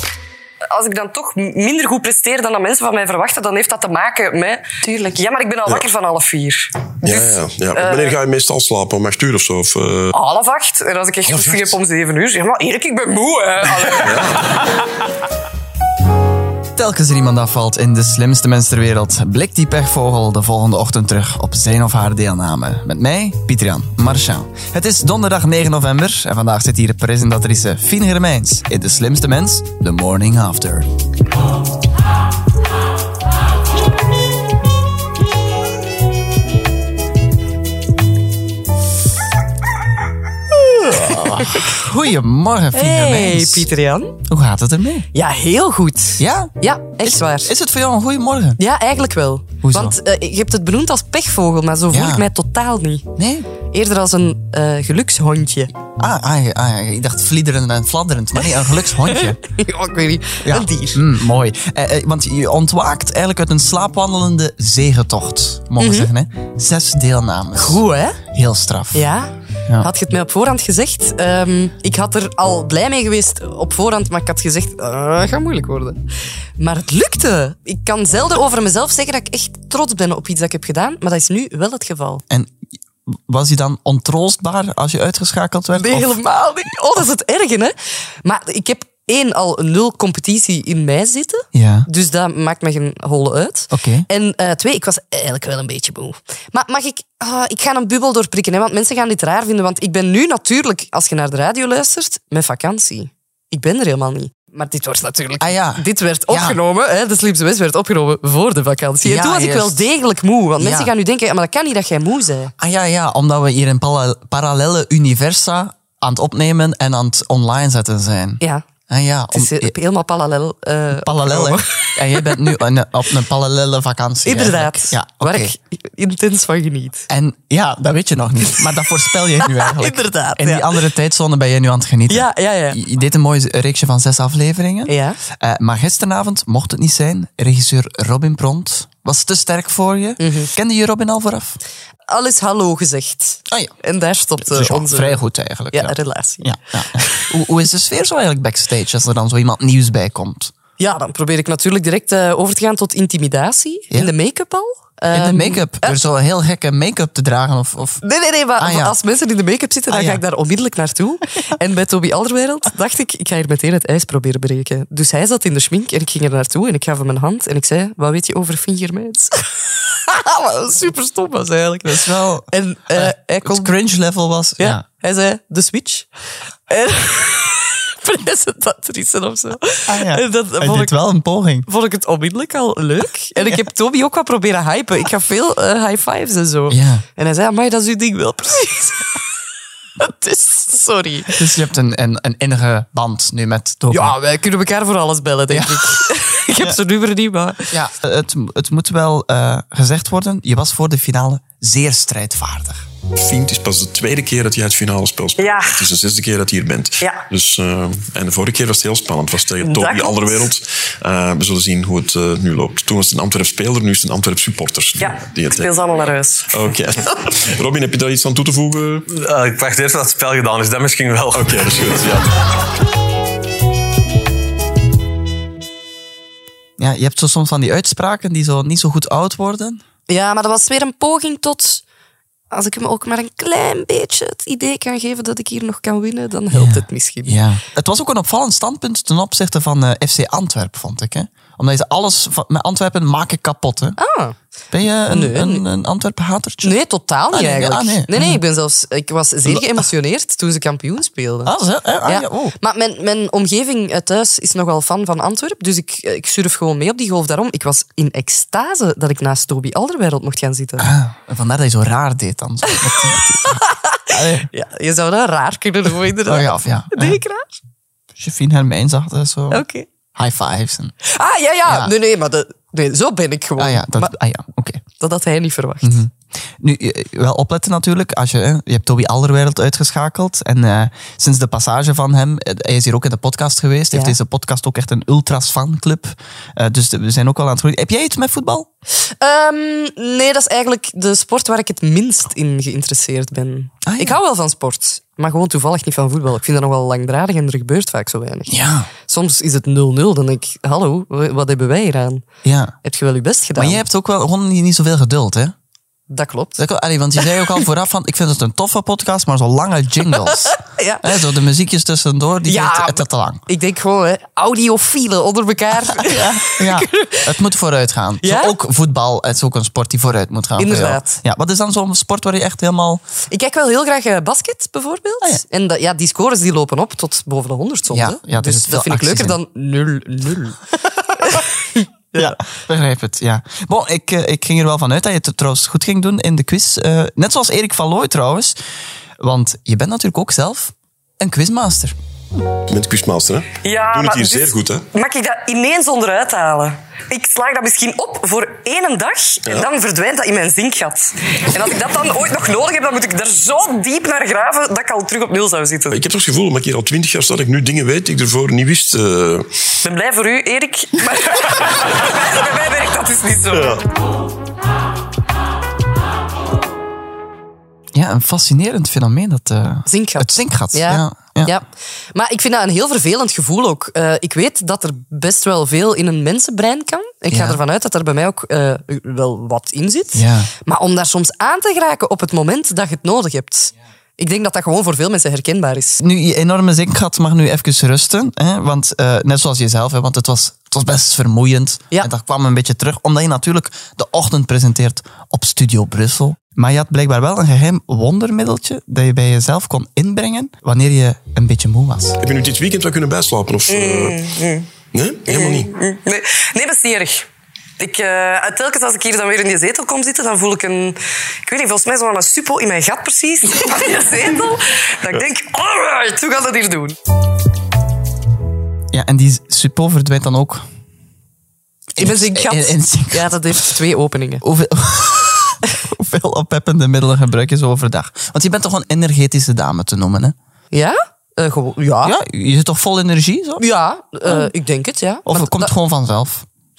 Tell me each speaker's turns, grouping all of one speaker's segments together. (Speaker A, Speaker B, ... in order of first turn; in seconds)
Speaker A: 0.7-8.2, 10.1-14.4, 205.4-205.9, 209.6-210.5, 215.0-216.5, 343.6-356.0, 359.8-363.8, 403.7-404.7, 405.3-406.4, 407.8-410.9, 411.5-414.5, 415.0-416.9
Speaker B: 7.0-10.1, 11.2-11.7, 13.9-14.4, 203.2-215.7, 216.5-219.1, 221.3-222.3, 342.7-344.9, 355.9-359.5, 363.6-363.8, 402.2-404.3, 404.9-405.7
Speaker C: 16.8-30.9, 40.9-43.7, 44.3-45.1, 46.2-48.6, 49.6-50.0, 51.9-52.3, 53.2-53.5, 56.0-59.4, 60.4-69.1, 82.3-82.5, 83.1-86.2, 91.5-91.9, 93.7-94.1, 105.4-106.6, 109.0-109.9, 110.6-110.9, 112.6-119.8, 120.9-125.5, 127.1-141.6, 144.5-150.5, 155.1-158.0, 158.6-158.9, 159.9-160.2, 171.8-174.8, 179.9-181.7, 186.7-187.1, 191.3-194.2, 195.5-196.1, 197.7-202.8, 226.8-229.8, 236.5-244.0, 244.7-246.8, 247.3-248.4, 249.5-249.8, 251.4-252.6, 260.8-264.5, 266.2-267.2, 268.2-269.6, 270.1-270.9, 271.7-271.9, 273.6-274.8, 275.8-288.7, 293.8-294.2, 298.5-298.9, 302.4-302.8, 303.6-305.6, 306.6-313.4, 315.9-323.0, 327.9-329.4, 332.2-338.6, 339.2-341.9, 367.9-371.6, 377.3-377.6, 380.1-380.5, 386.0-402.2, 418.9-420.6, 421.9-423.7, 424.4-430.4, 432.0-433.6, 434.2-434.5, 435.2-436.4
Speaker D: 40.7-41.8, 42.7-44.2, 45.1-47.5, 48.6-53.1, 53.7-55.7, 59.1-61.0, 65.8-66.1, 67.6-68.2, 68.9-76.0, 76.6-82.2, 85.8-112.5, 119.3-122.6, 124.2-127.1, 129.4-130.8, 132.1-132.8, 134.9-135.2, 140.2-140.5, 142.1-145.2, 145.7-147.3, 150.8-156.0, 158.0-173.7, 174.6-176.1, 176.7-180.9, 181.7-189.2, 190.0-191.4, 193.9-197.7, 230.1-231.8, 232.5-237.4, 244.0-244.4, 245.1-245.7, 246.6-251.5, 252.1-260.9, 262.7-267.6, 269.5-269.9, 271.0-274.1, 275.0-276.0, 289.0-302.2, 302.8-303.8, 306.1-306.6, 310.2-311.2, 312.4-317.3, 318.2-318.6, 320.6-321.2, 323.3-330.6, 331.1-332.4, 369.9-386.0, 406.1-407.2, 407.8-410.9, 412.2-414.6, 415.9-416.9, 422.0-424.4, 430.7-432.2, 433.6-435.7
Speaker E: 219.1-222.0